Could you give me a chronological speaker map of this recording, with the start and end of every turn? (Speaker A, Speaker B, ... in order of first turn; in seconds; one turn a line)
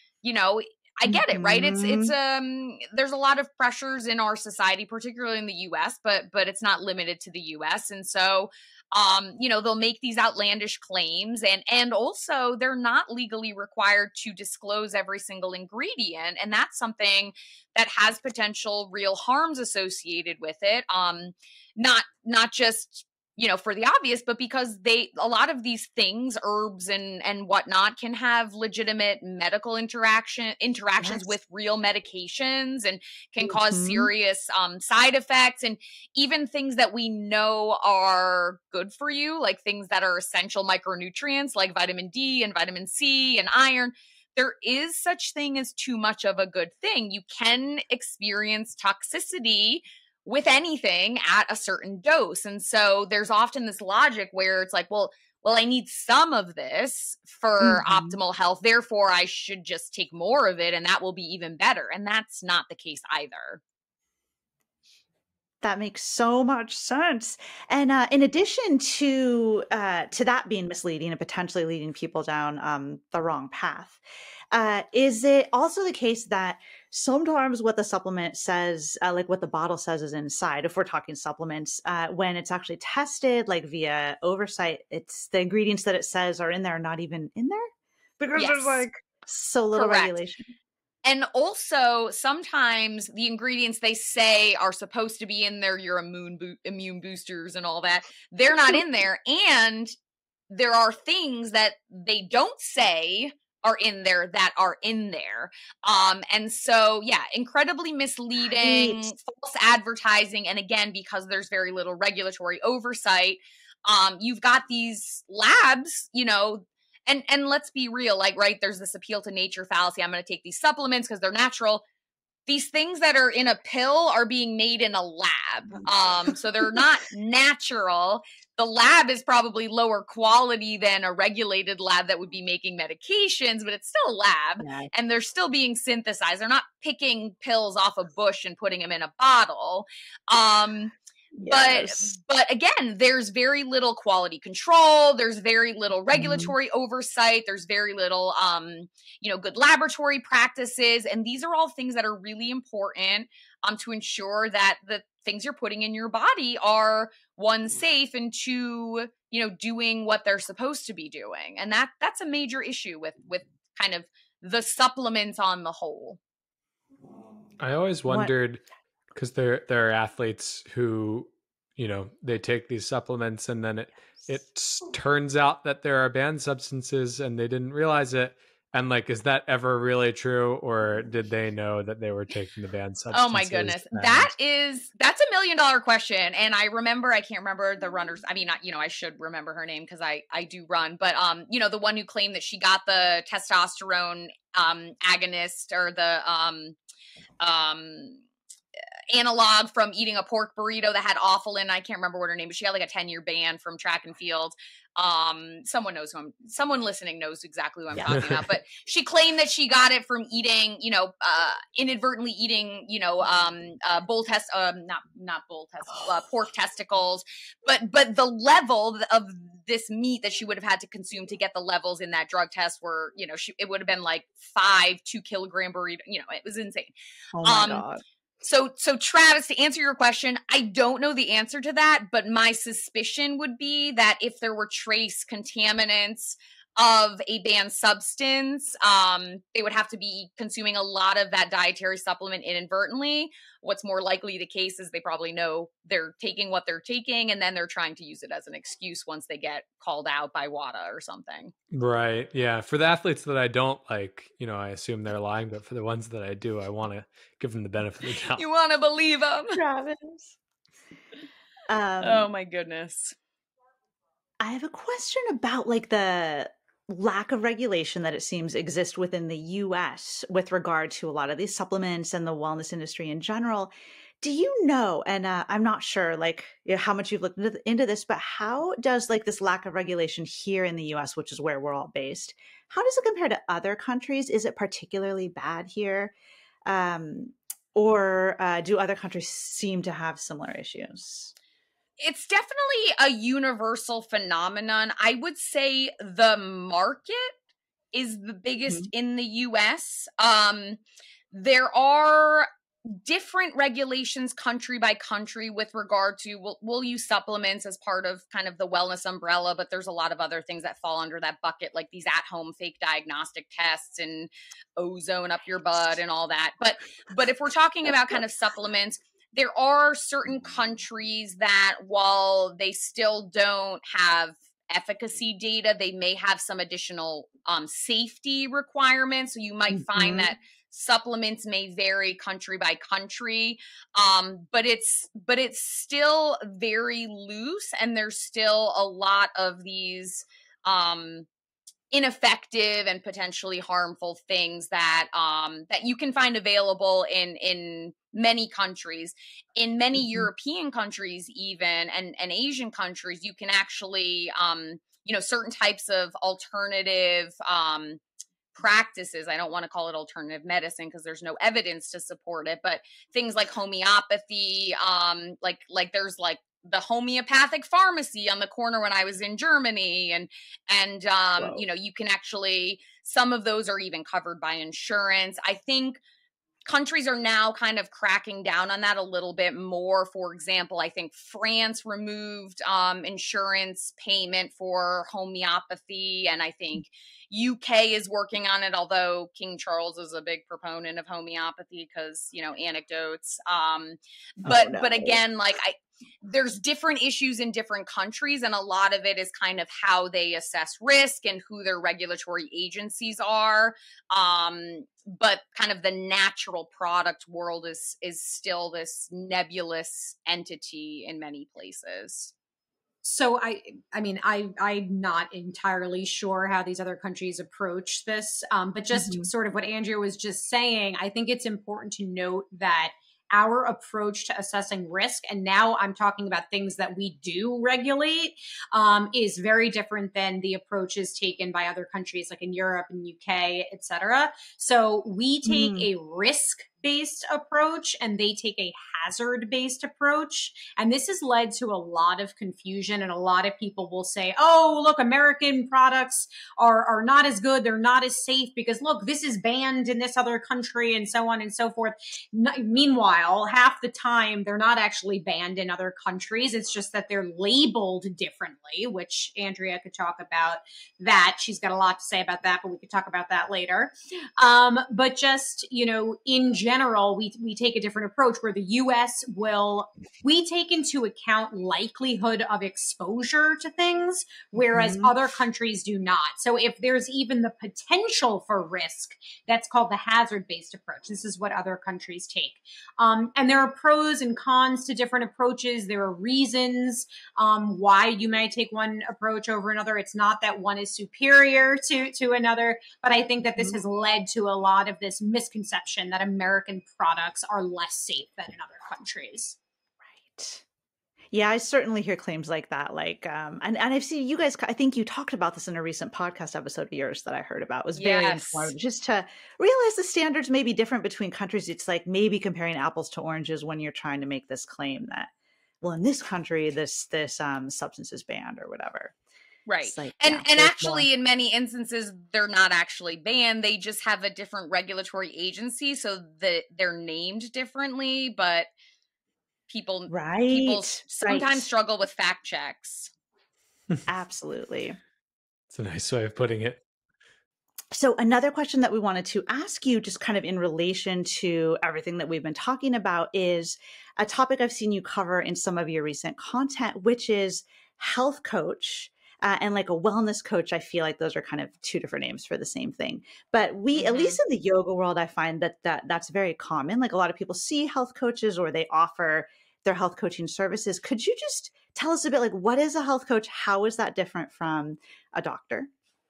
Speaker A: 0.2-63.6
Speaker B: 1.1-2.1
Speaker B: 33.4-34.1
Speaker B: 57.6-58.2
Speaker B: 65.6-74.0
Speaker B: 74.5-90.5
Speaker A: 88.4-88.8
Speaker A: 89.8-90.2
Speaker A: 91.0-99.9
Speaker A: 100.5-121.8
Speaker B: 108.5-109.0
Speaker A: 122.5-140.9
Speaker B: 134.6-134.9
Speaker B: 141.4-142.1
Speaker A: 141.5-166.2
Speaker B: 146.1-146.5
Speaker C: 167.6-184.3
Speaker B: 168.1-168.3
Speaker A: 183.1-196.8
Speaker A: 197.4-198.2
Speaker A: 199.1-226.9
Speaker C: 208.0-208.4
Speaker B: 227.3-228.0
Speaker A: 227.4-227.8
Speaker A: 228.4-251.5
Speaker C: 251.7-258.4
Speaker A: 258.4-259.6
Speaker B: 259.6-260.4
Speaker B: 261.7-262.3
Speaker A: 262.0-263.1
Speaker B: 264.4-286.1
Speaker B: 286.7-291.3
Speaker A: 292.0-297.3
Speaker A: 297.9-300.8
Speaker A: 301.3-341.3
Speaker B: 329.7-330.3
Speaker A: 341.9-358.0
Speaker A: 358.6-376.0
Speaker A: 376.7-412.3
Speaker B: 394.4-395.2
Speaker D: 413.0-499.6
Speaker B: 418.9-419.3
Speaker B: 435.5-435.9
Speaker B: 474.6-475.1
Speaker B: 500.1-500.6
Speaker B: 501.3-515.3
Speaker A: 508.0-508.7
Speaker B: 515.8-519.1
Speaker A: 519.7-528.7
Speaker B: 519.9-521.1
Speaker A: 529.7-533.1
Speaker B: 530.1-531.7
Speaker B: 534.1-535.0
Speaker C: 535.7-536.8
Speaker B: 537.9-565.9
Speaker A: 554.0-554.4